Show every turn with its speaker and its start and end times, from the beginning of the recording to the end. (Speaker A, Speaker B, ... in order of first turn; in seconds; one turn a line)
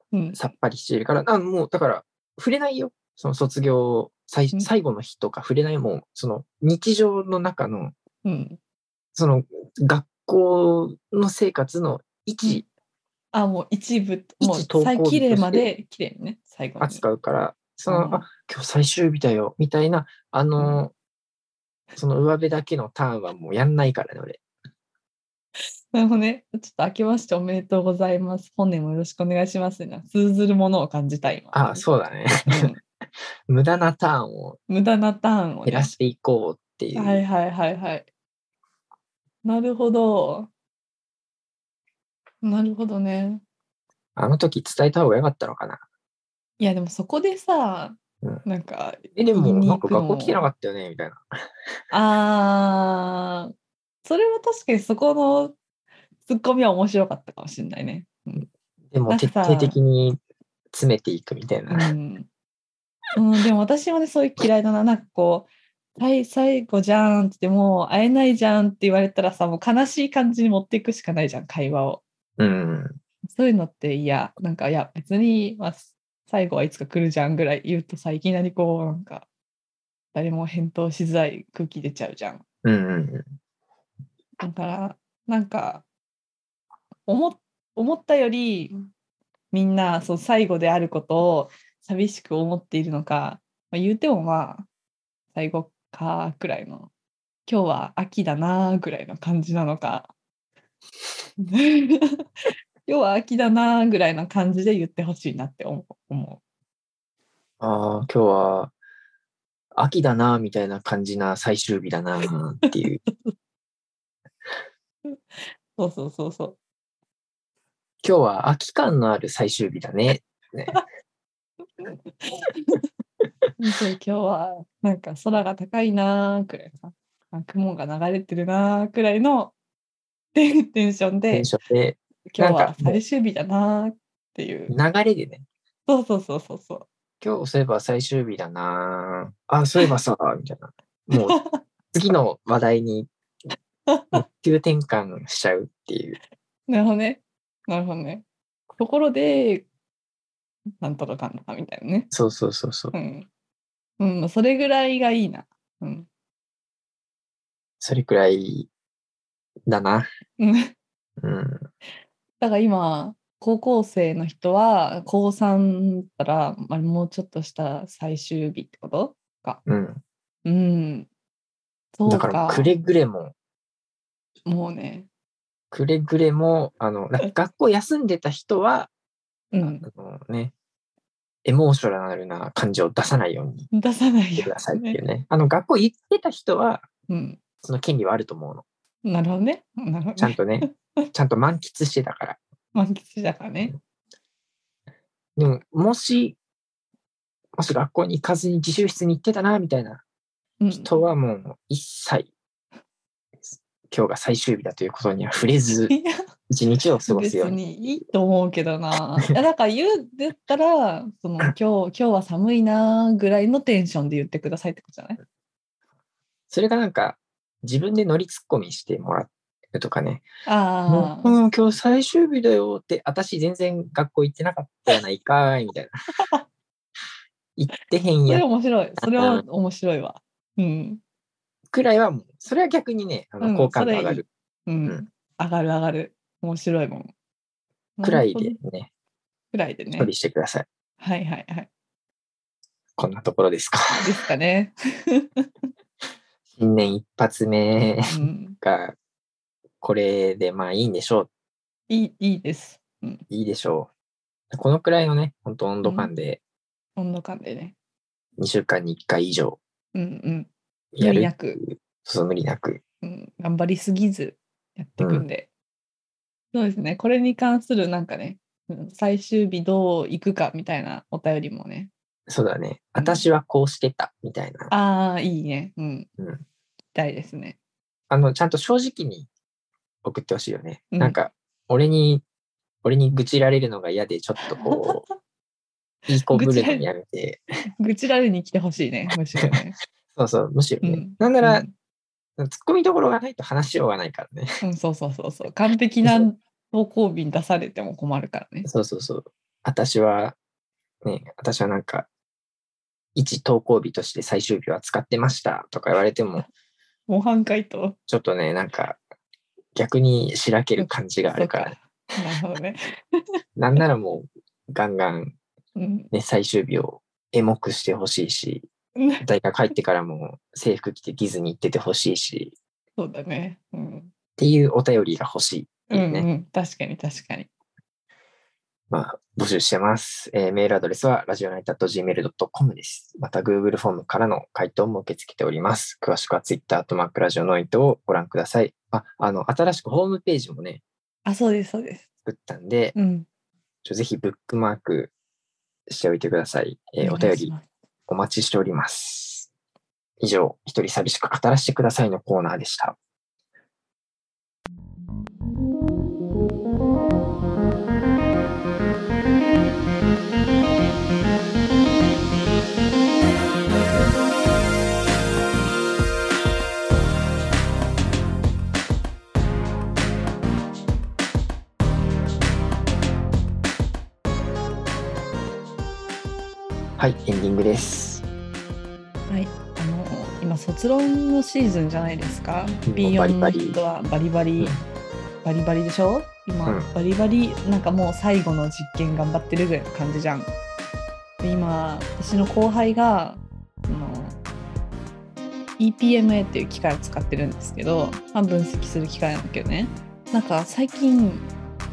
Speaker A: 0.1-0.4
Speaker B: 0.3-7.9
Speaker A: 8.2-8.6
Speaker B: 9.2-12.7
Speaker A: 13.3-17.0
Speaker B: 14.4-15.7
Speaker B: 16.8-20.9
Speaker A: 17.9-18.2
Speaker B: 22.0-24.4
Speaker A: 25.9-31.9
Speaker B: 31.5-32.7
Speaker A: 32.5-32.8
Speaker B: 33.5-34.6
Speaker A: 34.7-35.9
Speaker B: 35.7-37.2
Speaker A: 37.0-38.1
Speaker A: 39.4-40.5
Speaker A: 42.4-43.4
Speaker B: 44.2-45.8
Speaker A: 46.6-50.4
Speaker B: 49.1-51.2
Speaker A: 51.9-53.5
Speaker A: 54.0-55.5
Speaker A: 56.3-58.5
Speaker B: 58.9-60.2
Speaker A: 59.1-59.8
Speaker B: 60.7-61.9
Speaker A: 61.7-62.3
Speaker A: 63.2-72.0
Speaker B: 72.4-73.0
Speaker A: 73.3-79.3
Speaker A: 80.1-82.4
Speaker B: 82.6-83.3
Speaker A: 84.4-85.8
Speaker A: 87.1-88.7
Speaker A: 89.5-94.7
Speaker A: 95.3-96.9
Speaker A: 97.5-100.1
Speaker A: 101.4-102.2
Speaker A: 102.9-106.4
Speaker B: 107.6-108.7
Speaker B: 109.8-113.0
Speaker A: 112.7-113.3
Speaker A: 115.1-116.6
Speaker B: 118.0-120.8
Speaker A: 121.8-122.8
Speaker A: 123.6-129.5
Speaker A: 130.3-131.5
Speaker B: 131.3-133.0
Speaker A: 132.3-134.7
Speaker B: 134.7-135.4
Speaker A: 135.9-136.9
Speaker B: 137.2-141.4
Speaker A: 141.1-141.6
Speaker B: 141.9-143.1
Speaker A: 143.9-144.2
Speaker B: 144.1-146.2
Speaker A: 146.7-148.2
Speaker A: 148.8-149.7
Speaker A: 150.8-152.1
Speaker B: 152.1-152.9
Speaker A: 152.9-153.3
Speaker A: 154.0-156.1
Speaker B: 157.8-158.7
Speaker B: 159.7-160.1
Speaker A: 160.4-160.7
Speaker B: 161.2-161.7
Speaker A: 162.4-169.6
Speaker B: 169.7-170.0
Speaker A: 170.4-171.1
Speaker A: 172.0-172.7
Speaker B: 172.1-173.3
Speaker A: 174.5-175.1
Speaker B: 175.7-178.9
Speaker A: 179.5-179.9
Speaker B: 179.6-180.5
Speaker B: 181.4-183.7
Speaker A: 183.7-185.0
Speaker B: 184.4-186.9
Speaker A: 187.1-187.4
Speaker B: 187.6-188.7
Speaker A: 189.1-190.7
Speaker B: 190.2-192.4
Speaker A: 192.7-193.7
Speaker B: 195.4-196.4
Speaker B: 197.6-200.0
Speaker A: 200.6-200.9
Speaker B: 200.7-202.3
Speaker B: 203.5-205.9
Speaker A: 205.9-206.2
Speaker B: 206.5-207.6
Speaker A: 207.1-215.2
Speaker B: 216.5-220.2
Speaker A: 220.5-221.4
Speaker B: 220.9-225.9
Speaker B: 227.6-228.4
Speaker A: 228.3-231.0
Speaker B: 229.0-229.4
Speaker B: 231.7-234.2
Speaker A: 233.4-237.1
Speaker A: 238.0-238.6
Speaker B: 238.0-238.9
Speaker A: 239.5-240.1
Speaker B: 239.9-240.7
Speaker A: 241.0-241.7
Speaker B: 243.0-244.0
Speaker A: 244.0-245.5
Speaker B: 246.5-248.9
Speaker A: 248.1-248.6
Speaker B: 249.8-251.3
Speaker A: 251.9-253.2
Speaker B: 253.3-253.9
Speaker B: 254.5-256.4
Speaker A: 255.8-256.1
Speaker A: 257.0-257.8
Speaker B: 258.4-259.6
Speaker A: 259.9-260.5
Speaker B: 260.9-262.8
Speaker A: 261.0-261.6
Speaker A: 263.0-265.5
Speaker B: 265.0-265.3
Speaker A: 266.5-271.9
Speaker B: 272.3-274.7
Speaker A: 273.0-273.2
Speaker A: 274.7-276.1
Speaker B: 276.2-276.4
Speaker A: 276.9-277.6
Speaker B: 278.1-279.3
Speaker B: 280.0-282.2
Speaker A: 280.9-281.2
Speaker B: 282.8-285.0
Speaker A: 284.5-285.0
Speaker B: 286.1-287.4
Speaker A: 286.3-286.9
Speaker A: 287.8-289.8
Speaker B: 290.1-291.6
Speaker A: 290.8-291.7
Speaker B: 292.4-294.6
Speaker A: 294.6-298.7
Speaker B: 298.6-300.4
Speaker B: 301.0-302.1
Speaker B: 303.1-306.5
Speaker A: 307.1-308.0
Speaker B: 308.1-309.0
Speaker B: 309.8-311.8
Speaker A: 310.8-313.2
Speaker B: 313.6-315.4
Speaker A: 315.8-316.1
Speaker B: 316.1-318.7
Speaker A: 319.0-319.2
Speaker B: 319.2-322.5
Speaker A: 323.0-324.1
Speaker B: 324.4-326.3
Speaker A: 325.9-327.5
Speaker B: 328.9-340.8
Speaker A: 341.2-342.1
Speaker B: 342.2-342.9
Speaker A: 342.9-343.3
Speaker B: 343.8-345.1
Speaker B: 345.9-347.5
Speaker A: 347.0-347.7
Speaker B: 348.1-349.5
Speaker B: 350.2-353.0
Speaker B: 377.0-378.2
Speaker A: 379.3-384.8
Speaker B: 382.9-383.8
Speaker B: 384.6-384.8
Speaker A: 385.4-390.5
Speaker A: 391.4-394.4
Speaker A: 395.8-401.5